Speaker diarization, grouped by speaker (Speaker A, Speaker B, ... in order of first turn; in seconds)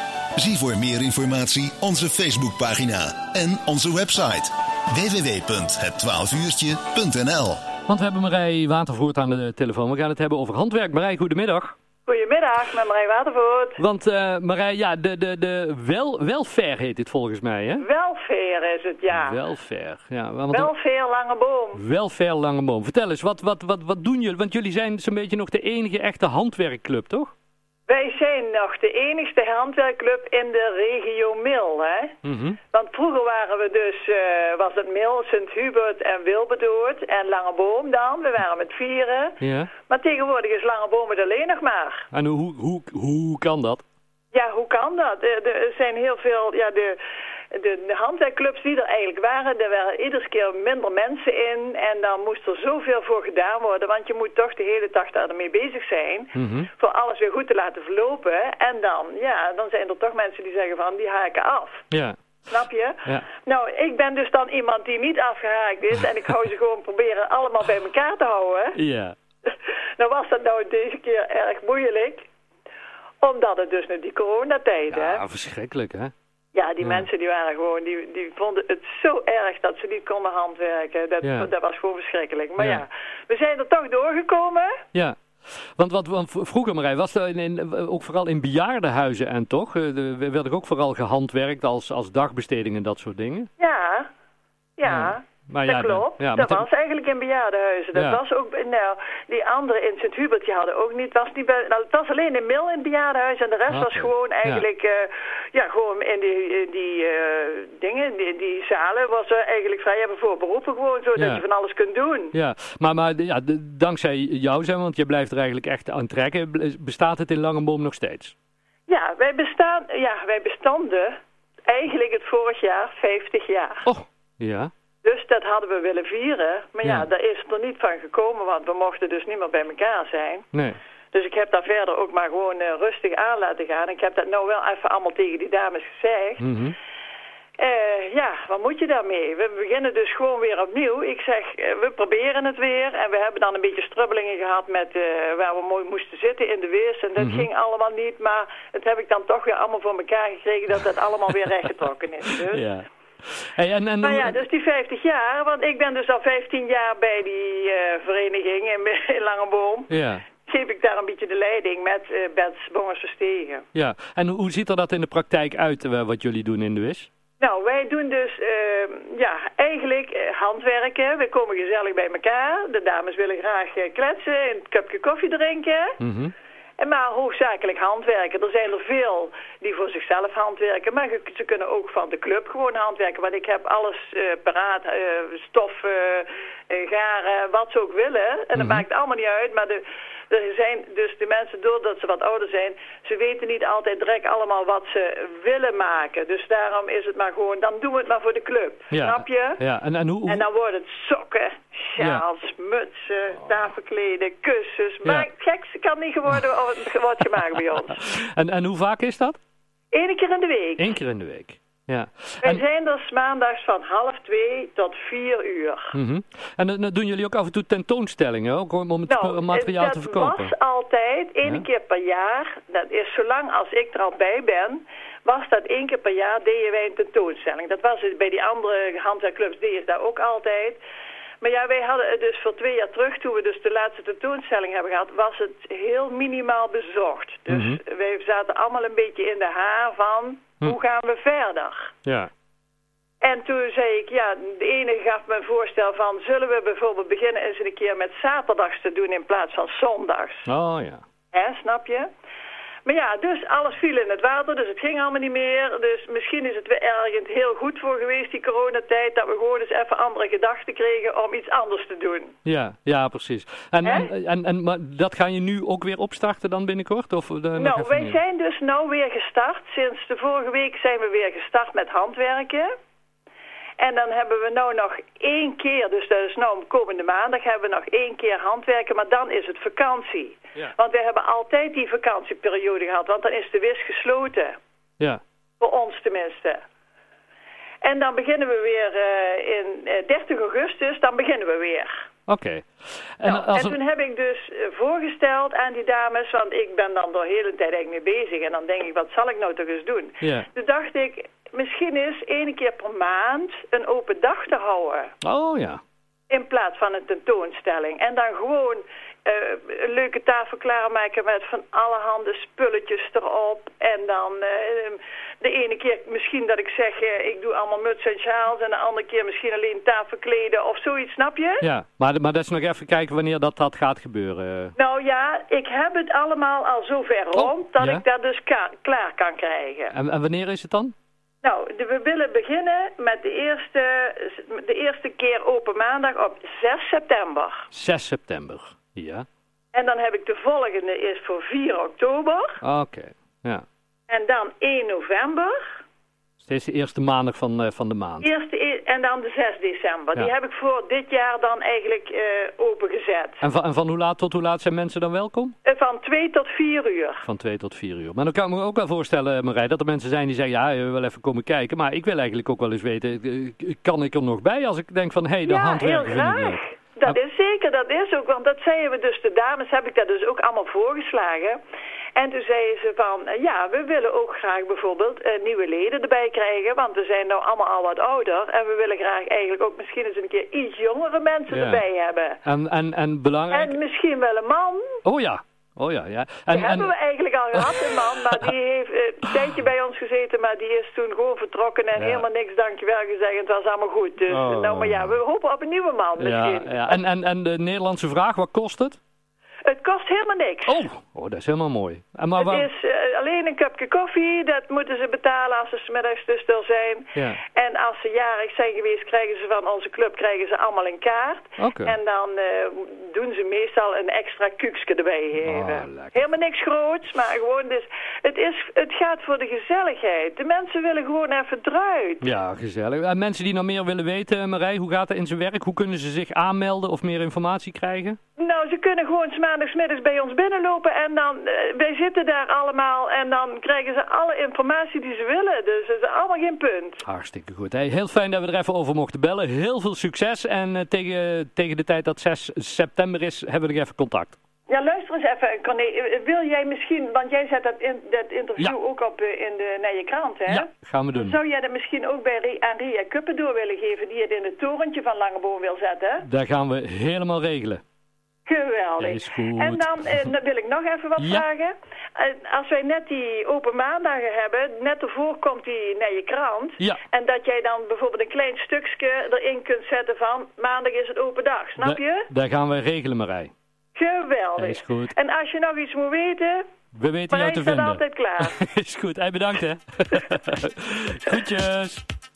Speaker A: 0.4-7.6
Speaker B: 7.9-11.8, 13.8-17.9, 19.1-20.7, 21.8-27.3, 32.2-32.6, 39.4-39.7, 42.1-43.8, 56.4-56.7, 61.9-62.2, 68.8-69.2, 74.9-76.1, 76.8-77.1, 81.2-81.5, 82.6-82.8, 85.8-93.5, 94.9-96.7, 97.9-98.2, 103.7-104.7, 111.2-111.4, 112.3-118.3, 123.8-124.7, 130.5-130.8, 136.4-136.8, 147.2-147.5, 152.4-154.4, 159.9-160.2, 163.7-167.1, 176.0-176.3, 188.5-188.8, 198.9-200.5, 202.0-202.2, 208.0-209.4, 210.8-212.6, 215.9-220.5, 237.5-237.8, 242.1-242.3, 250.5-251.0, 262.4-268.2, 292.3-293.8, 300.2-300.5, 305.2-305.8, 321.6-324.8, 327.4-328.0, 329.9-330.9, 337.7-339.3, 342.6-343.6, 346.4-348.3, 353.4-355.6, 357.2-367.1, 381.5-381.8, 382.4-383.8, 385.1-386.9, 387.5-388.5, 391.9-392.3, 394.3-395.2, 396.2-399.0, 400.7-402.7, 407.1-407.4, 411.6-412.0, 415.4-416.2, 422.2-428.2, 437.0-444.4, 450.5-451.4, 456.2-457.8, 459.0-460.2, 461.2-461.4, 471.8-473.5, 474.6-475.1, 476.9-482.0
Speaker C: 12.1-13.8, 17.8-19.4, 20.5-21.8, 27.9-32.2, 32.7-42.1, 44.3-47.0, 47.5-61.8, 62.5-68.8, 69.5-72.2, 73.2-75.2, 76.5-84.8, 93.6-94.1, 94.8-112.3, 118.9-121.2, 121.7-123.8, 125.0-130.5, 131.1-136.4, 137.6-152.7, 154.0-163.7, 167.4-175.9, 176.8-199.6, 200.3-208.0, 209.9-210.9, 212.4-215.9, 219.1-230.8, 231.4-241.9, 243.2-250.5, 251.3-252.1, 252.8-262.3, 263.8-264.1, 267.6-272.7, 273.8-284.6, 285.6-286.6, 287.8-291.9, 293.2-305.1, 306.3-321.7, 324.8-329.9, 331.4-337.7, 339.7-342.6, 344.1-345.5, 348.2-353.4, 355.6-357.2, 365.4-371.6, 372.2-382.4, 383.5-385.0, 386.5-397.0, 399.7-400.8, 402.4-422.2, 428.4-437.0, 444.7-456.3, 458.5-472.3, 473.9-476.6, 477.3-478.6